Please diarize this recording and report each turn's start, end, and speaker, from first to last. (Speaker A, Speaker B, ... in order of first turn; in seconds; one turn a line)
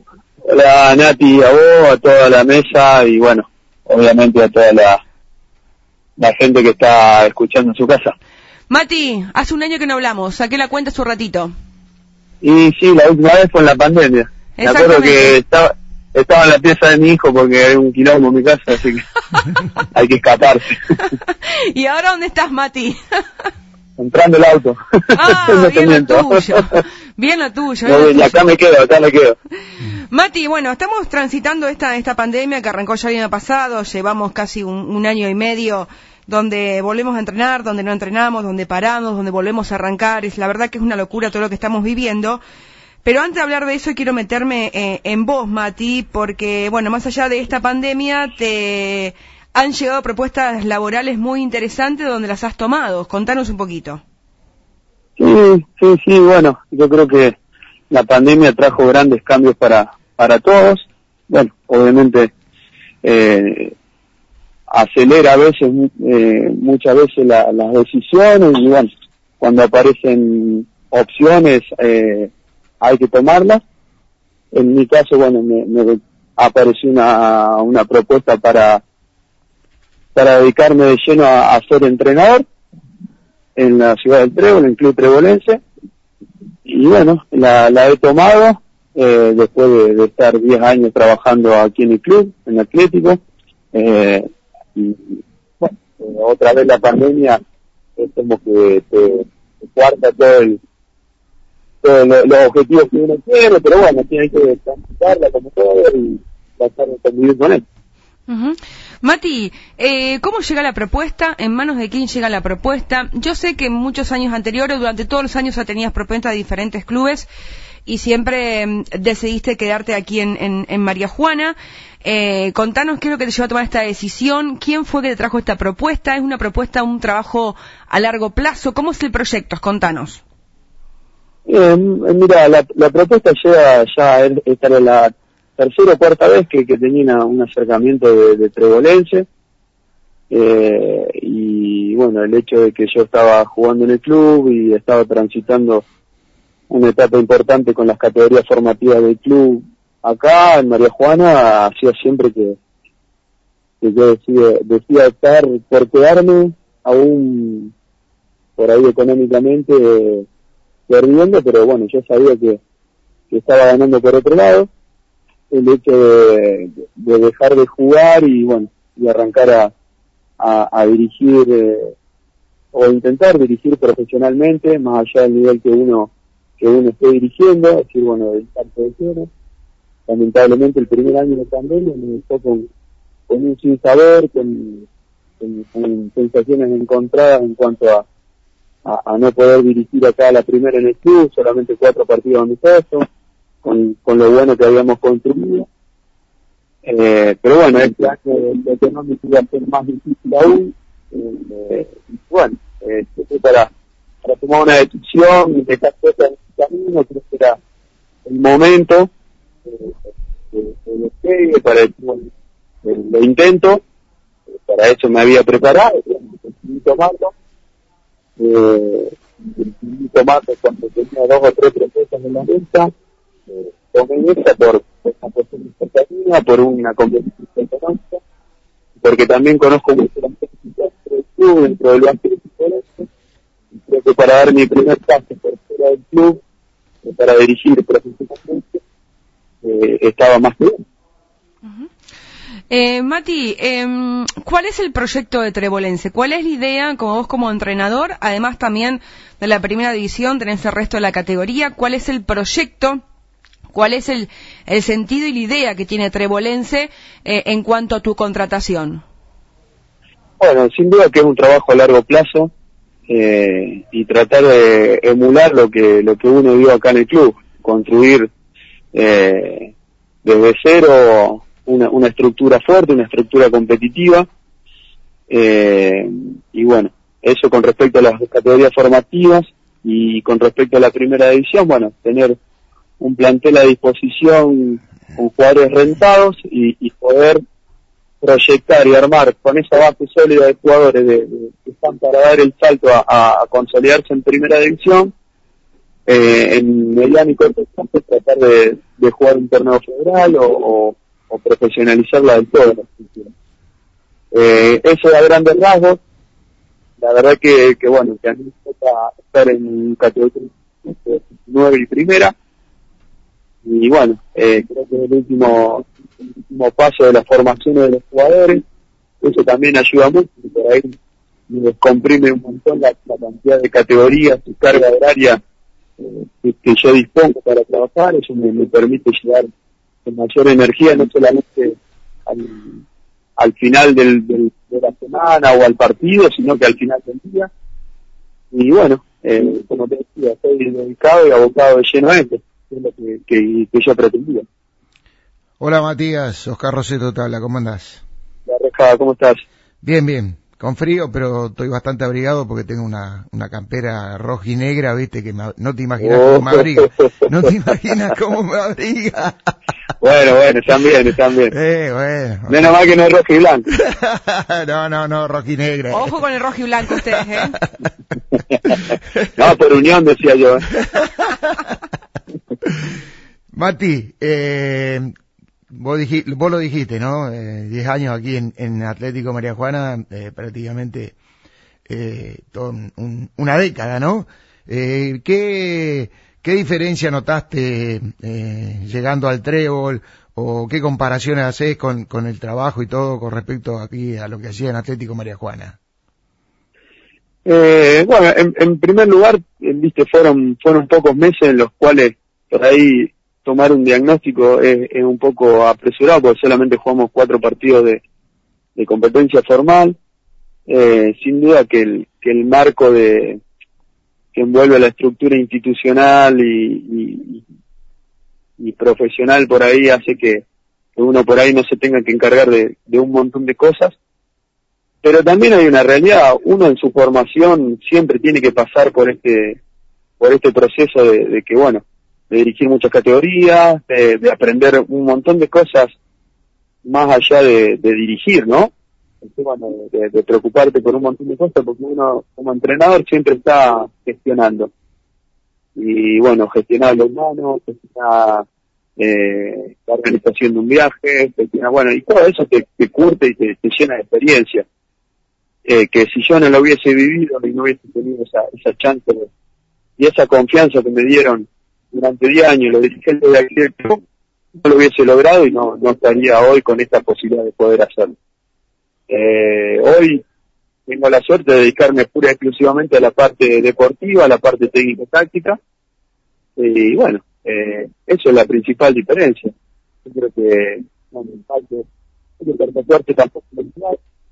Speaker A: 0.4-5.0
Speaker A: 6.2-8.2
Speaker B: 8.7-11.5
Speaker A: 12.4-19.1
Speaker B: 14.6-15.4
Speaker A: 19.9-20.8
Speaker B: 20.9-23.0
Speaker A: 24.0-26.8
Speaker B: 25.1-28.5
Speaker A: 27.9-29.4
Speaker B: 29.9-42.4
Speaker B: 43.0-54.0
Speaker A: 55.2-57.4
Speaker A: 57.9-62.3
Speaker A: 63.0-63.7
Speaker A: 64.7-68.9
Speaker A: 69.4-72.3
Speaker A: 72.8-73.6
Speaker A: 74.5-78.8
Speaker A: 80.2-82.5
Speaker A: 83.6-85.6
Speaker A: 86.7-93.2
Speaker A: 93.7-97.4
Speaker A: 98.0-100.6
Speaker A: 101.8-107.6
Speaker B: 108.3-117.3
Speaker B: 117.9-130.2
Speaker A: 131.5-139.3
Speaker A: 140.3-145.8
Speaker A: 146.7-152.6
Speaker A: 153.8-157.7
Speaker A: 158.6-160.3
Speaker A: 160.9-162.6
Speaker A: 163.3-164.7
Speaker A: 165.5-169.7
Speaker A: 170.4-171.9
Speaker A: 172.7-179.3
Speaker A: 180.1-182.7
Speaker A: 183.3-184.9
Speaker A: 185.4-188.1
Speaker A: 188.8-193.1
Speaker A: 193.6-195.7
Speaker A: 196.8-203.7
Speaker A: 204.2-207.6
Speaker A: 208.3-209.1
Speaker A: 209.7-209.9
Speaker A: 210.5-212.3
Speaker A: 212.8-213.8
Speaker A: 214.5-217.3
Speaker A: 218.4-222.9
Speaker A: 223.5-228.2
Speaker A: 229.0-233.1
Speaker A: 233.7-236.4
Speaker A: 237.0-238.7
Speaker A: 239.6-240.8
Speaker B: 242.7-253.0
Speaker B: 253.7-259.0
Speaker A: 260.4-262.5
Speaker A: 263.1-268.3
Speaker A: 268.9-269.7
Speaker A: 270.2-274.3
Speaker A: 275.3-282.4
Speaker A: 283.0-287.4
Speaker A: 288.2-295.1
Speaker A: 296.1-303.3
Speaker A: 304.3-306.0
Speaker A: 307.0-312.3
Speaker A: 313.6-318.6
Speaker A: 319.2-320.9
Speaker A: 321.5-325.4
Speaker A: 326.0-329.5
Speaker A: 330.1-332.8
Speaker A: 333.4-337.5
Speaker A: 338.5-344.4
Speaker C: 345.6-348.0
Speaker A: 348.5-349.4
Speaker C: 349.8-359.5
Speaker A: 356.0-357.5
Speaker A: 360.0-361.5
Speaker C: 361.5-362.8
Speaker A: 362.5-363.7
Speaker C: 363.7-366.1
Speaker B: 365.9-367.6
Speaker A: 369.4-370.7
Speaker C: 373.5-375.1
Speaker C: 375.7-381.1
Speaker C: 381.9-395.8
Speaker A: 397.4-408.0
Speaker A: 408.8-410.0
Speaker A: 410.7-413.4
Speaker A: 414.3-417.4
Speaker A: 418.6-420.4
Speaker A: 421.0-423.9
Speaker A: 425.0-429.6
Speaker A: 430.2-435.9
Speaker A: 436.9-438.7
Speaker A: 439.2-444.7
Speaker A: 445.8-448.4
Speaker A: 449.0-454.6
Speaker A: 455.7-459.3
Speaker A: 460.0-464.0
Speaker A: 464.6-468.1
Speaker A: 469.1-470.2
Speaker A: 470.9-475.6
Speaker A: 476.6-479.5
Speaker A: 480.1-481.9
Speaker A: 482.4-484.0